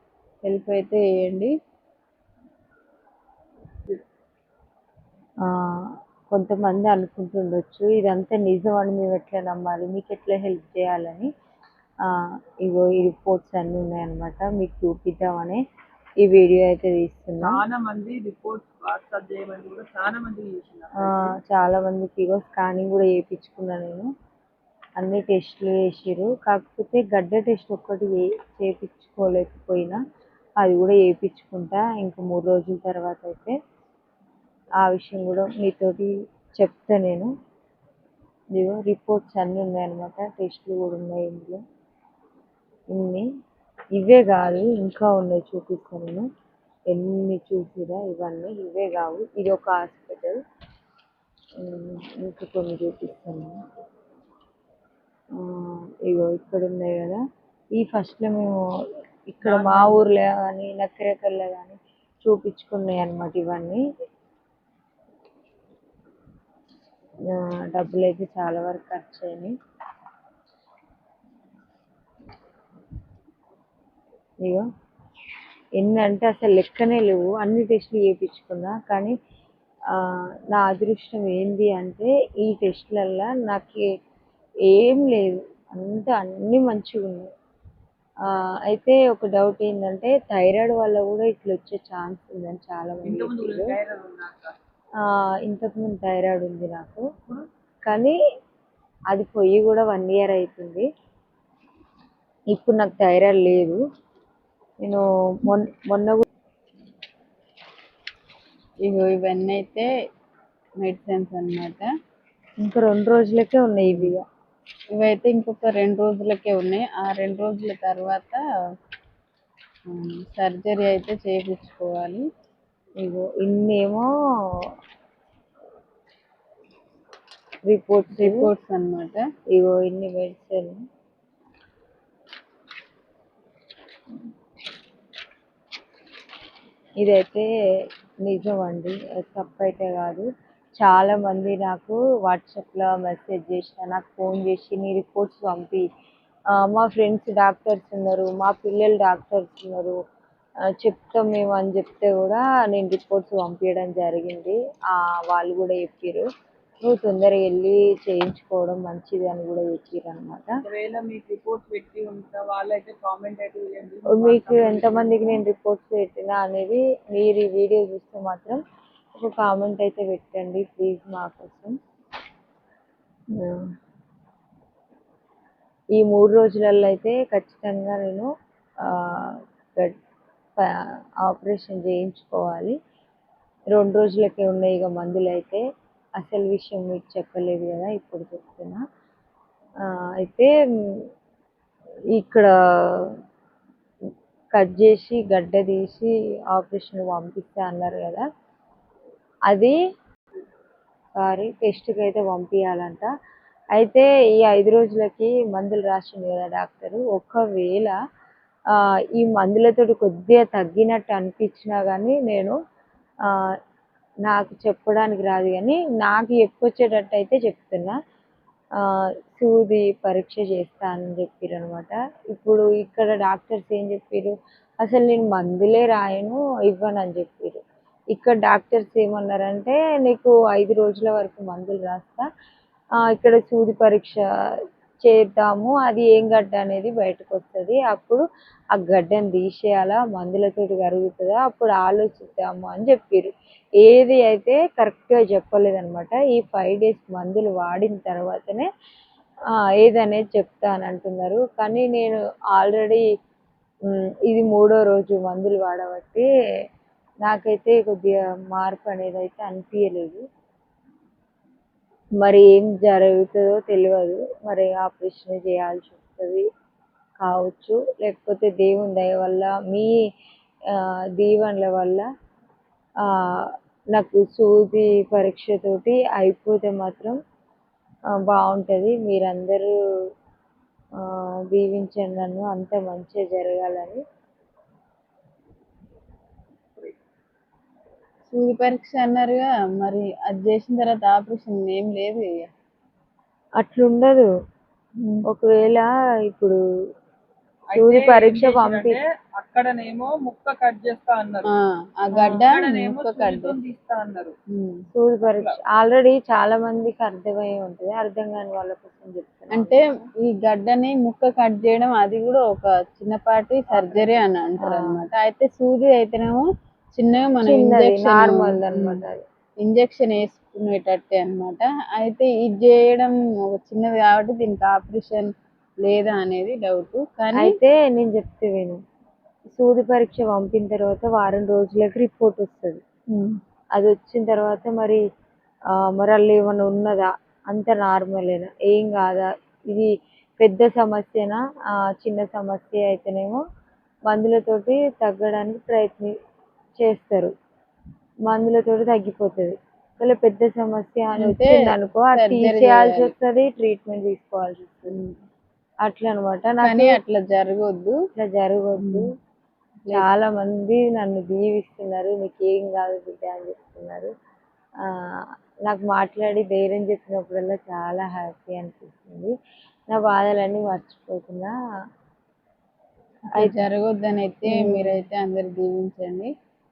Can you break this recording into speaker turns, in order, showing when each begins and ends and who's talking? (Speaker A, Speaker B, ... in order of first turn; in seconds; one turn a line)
Speaker A: 0.4-1.5
Speaker B: 5.4-11.3
Speaker B: 12.0-15.6
Speaker B: 16.2-17.6
Speaker C: 17.4-21.3
Speaker B: 21.0-24.1
Speaker B: 25.0-30.0
Speaker B: 30.6-33.6
Speaker B: 34.8-37.3
Speaker B: 38.5-41.6
Speaker B: 42.9-43.3
Speaker B: 43.9-46.3
Speaker B: 46.9-50.4
Speaker B: 51.6-53.6
Speaker B: 55.3-57.2
Speaker B: 57.8-58.6
Speaker B: 59.3-63.8
Speaker C: 59.4-60.1
Speaker B: 67.3-69.5
Speaker B: 75.8-79.1
Speaker B: 79.9-83.8
Speaker B: 84.7-87.3
Speaker B: 88.3-93.8
Speaker C: 93.0-94.5
Speaker B: 95.0-97.1
Speaker B: 97.9-98.2
Speaker B: 99.1-100.9
Speaker B: 102.5-103.8
Speaker B: 104.8-106.2
Speaker A: 108.8-109.9
Speaker A: 110.8-111.9
Speaker B: 112.6-114.2
Speaker A: 113.9-114.2
Speaker A: 114.9-118.4
Speaker A: 119.9-122.2
Speaker B: 123.0-124.1
Speaker B: 127.7-128.5
Speaker A: 128.2-129.2
Speaker B: 129.5-130.8
Speaker B: 137.0-137.5
Speaker B: 138.3-145.9
Speaker B: 146.5-150.0
Speaker B: 150.7-156.3
Speaker B: 156.8-160.6
Speaker C: 160.6-165.4
Speaker B: 164.1-168.6
Speaker B: 169.1-171.8
Speaker B: 173.3-173.7
Speaker B: 175.9-178.3
Speaker B: 178.8-179.9
Speaker B: 180.6-182.8
Speaker B: 183.7-185.6
Speaker B: 186.2-188.8
Speaker B: 189.8-191.1
Speaker B: 192.1-193.2
Speaker B: 194.5-198.2
Speaker B: 199.5-199.8
Speaker B: 201.2-203.1
Speaker B: 203.8-207.9
Speaker B: 208.7-212.6
Speaker B: 213.3-213.6
Speaker B: 214.3-218.0
Speaker B: 218.8-227.6
Speaker B: 228.1-232.3
Speaker B: 233.0-234.2
Speaker B: 235.0-238.2
Speaker B: 238.7-248.7
Speaker B: 249.5-253.0
Speaker B: 253.9-256.3
Speaker B: 257.2-260.2
Speaker B: 262.2-266.4
Speaker B: 267.2-269.9
Speaker B: 270.7-272.1
Speaker B: 273.0-277.2
Speaker B: 278.2-279.7
Speaker B: 281.0-284.0
Speaker A: 288.3-292.5
Speaker B: 293.6-294.3
Speaker B: 295.3-296.6
Speaker C: 297.7-301.5
Speaker B: 297.7-299.0
Speaker A: 301.4-303.6
Speaker B: 302.1-302.4
Speaker C: 302.3-304.4
Speaker A: 304.5-304.8
Speaker B: 304.9-310.1
Speaker C: 305.2-305.6
Speaker A: 309.5-319.0
Speaker C: 313.7-314.2
Speaker B: 314.6-315.0
Speaker B: 317.4-319.2
Speaker A: 319.6-325.3
Speaker A: 325.8-327.6
Speaker B: 327.3-328.8
Speaker B: 329.6-332.8
Speaker B: 333.8-335.0
Speaker B: 335.7-343.4
Speaker B: 344.1-346.1
Speaker B: 346.8-347.3
Speaker B: 348.3-355.0
Speaker A: 351.2-353.1
Speaker A: 354.9-355.2
Speaker B: 355.8-357.0
Speaker A: 356.6-358.0
Speaker B: 358.1-359.1
Speaker A: 358.8-359.1
Speaker B: 359.9-364.1
Speaker B: 364.8-369.3
Speaker B: 369.9-371.6
Speaker A: 373.3-376.3
Speaker B: 374.5-375.1